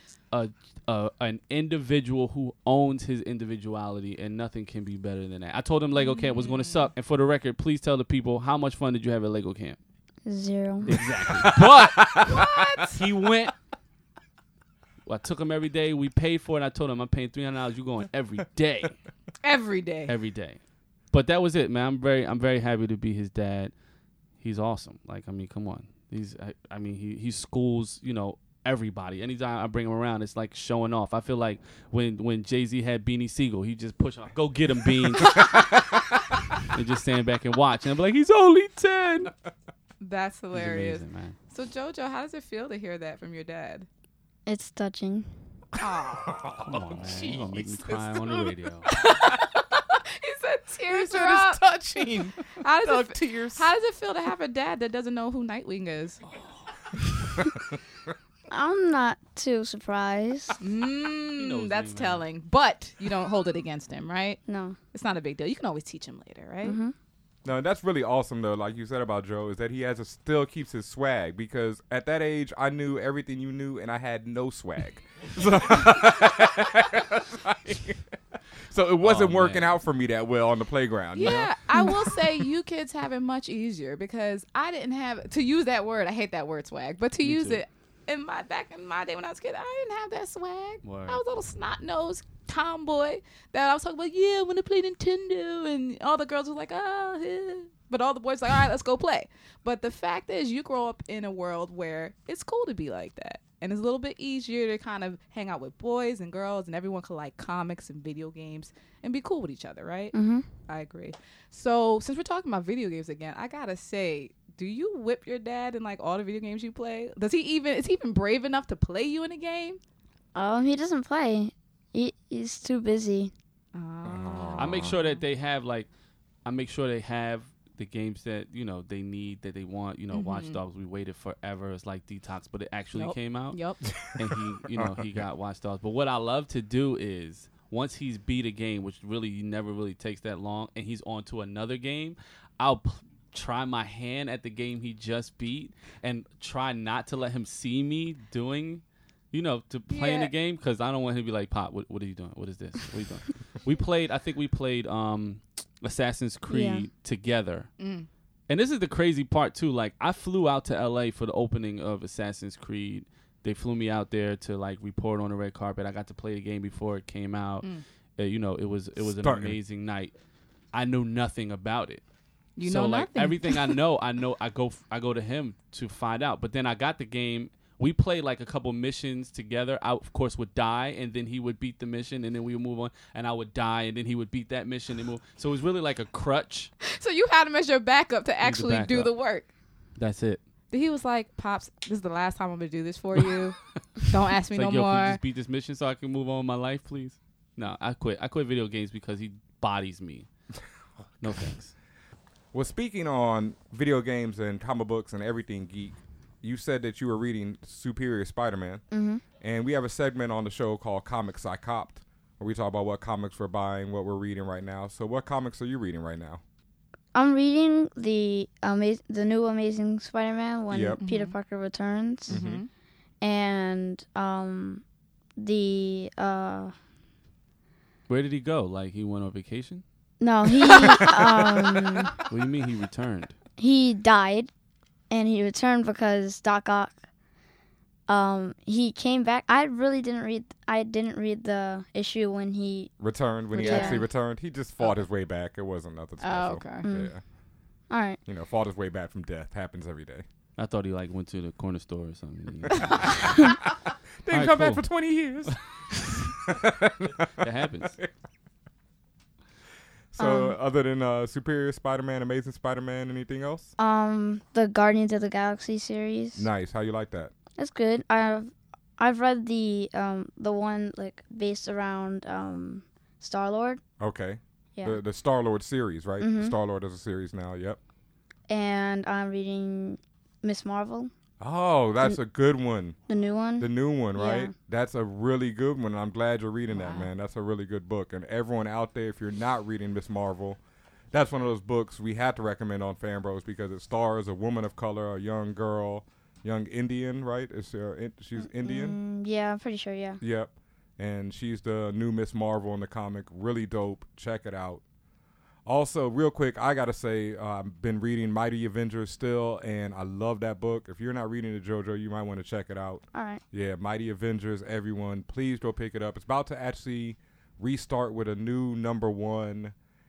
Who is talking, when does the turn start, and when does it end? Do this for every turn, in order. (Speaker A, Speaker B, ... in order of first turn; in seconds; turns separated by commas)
Speaker A: 0.3-9.8, Speaker B: 5.9-6.9, Speaker C: 10.2-10.9, Speaker A: 10.8-13.5, Speaker D: 11.0-12.5, Speaker B: 12.2-13.0, Speaker A: 15.1-18.9, Speaker B: 19.4-20.1, Speaker A: 20.1-20.6, Speaker A: 21.1-23.7, Speaker A: 24.4-35.7, Speaker A: 36.6-39.3, Speaker B: 40.0-43.9, Speaker A: 40.5-41.4, Speaker C: 44.5-45.3, Speaker B: 45.8-46.5, Speaker D: 46.3-48.5, Speaker A: 46.5-48.9, Speaker B: 48.9-51.6, Speaker D: 50.9-53.7, Speaker B: 52.6-56.2, Speaker C: 58.5-60.5, Speaker B: 60.6-64.4, Speaker A: 61.4-62.2, Speaker C: 64.5-64.8, Speaker B: 64.9-66.8, Speaker C: 66.6-66.9, Speaker D: 67.4-78.0, Speaker D: 78.7-81.9, Speaker A: 79.0-79.7, Speaker B: 81.2-110.1, Speaker A: 87.2-87.6, Speaker A: 90.8-91.2, Speaker C: 110.1-110.5, Speaker B: 110.7-119.8, Speaker C: 120.3-123.3, Speaker B: 123.7-125.2, Speaker D: 124.0-124.9, Speaker A: 124.6-125.9, Speaker A: 126.4-133.6, Speaker B: 130.1-130.6, Speaker B: 132.9-133.8, Speaker A: 134.1-157.7, Speaker B: 149.9-150.3, Speaker C: 156.5-156.9, Speaker B: 157.8-158.1, Speaker A: 158.5-170.1, Speaker D: 169.0-169.6, Speaker A: 170.7-172.0, Speaker B: 172.6-173.8, Speaker A: 172.6-186.7, Speaker B: 186.9-189.5, Speaker A: 188.4-189.1, Speaker A: 190.0-190.4, Speaker B: 190.7-195.2, Speaker A: 194.5-200.3, Speaker A: 201.2-201.7, Speaker D: 202.5-208.8, Speaker C: 208.9-209.2, Speaker D: 209.4-216.4, Speaker C: 217.1-222.4, Speaker D: 220.7-221.0, Speaker B: 221.0-221.3, Speaker D: 222.3-222.6, Speaker B: 222.3-222.7, Speaker C: 223.2-224.8, Speaker C: 225.4-226.7, Speaker A: 228.1-229.8, Speaker C: 230.2-232.2, Speaker A: 232.3-233.3, Speaker C: 233.6-234.5, Speaker C: 235.1-236.9, Speaker C: 238.1-242.9, Speaker D: 243.0-247.2, Speaker B: 243.5-244.1, Speaker C: 243.6-244.0, Speaker B: 246.2-246.9, Speaker C: 246.8-247.1, Speaker C: 247.9-248.2, Speaker D: 248.2-250.2, Speaker A: 250.6-253.6, Speaker B: 252.7-253.1, Speaker D: 254.2-255.6, Speaker A: 254.3-254.9, Speaker D: 256.5-257.3, Speaker A: 257.4-258.0, Speaker D: 260.1-263.7, Speaker C: 260.2-260.6, Speaker C: 263.8-266.5, Speaker D: 266.4-267.3, Speaker C: 267.6-273.8, Speaker D: 274.0-277.8, Speaker C: 276.2-276.5, Speaker C: 278.5-281.1, Speaker D: 281.4-282.9, Speaker C: 283.1-284.5, Speaker D: 283.6-290.6, Speaker B: 286.7-287.1, Speaker D: 291.1-299.0, Speaker C: 298.4-300.2, Speaker D: 300.2-304.8, Speaker D: 305.6-319.7, Speaker C: 313.1-313.4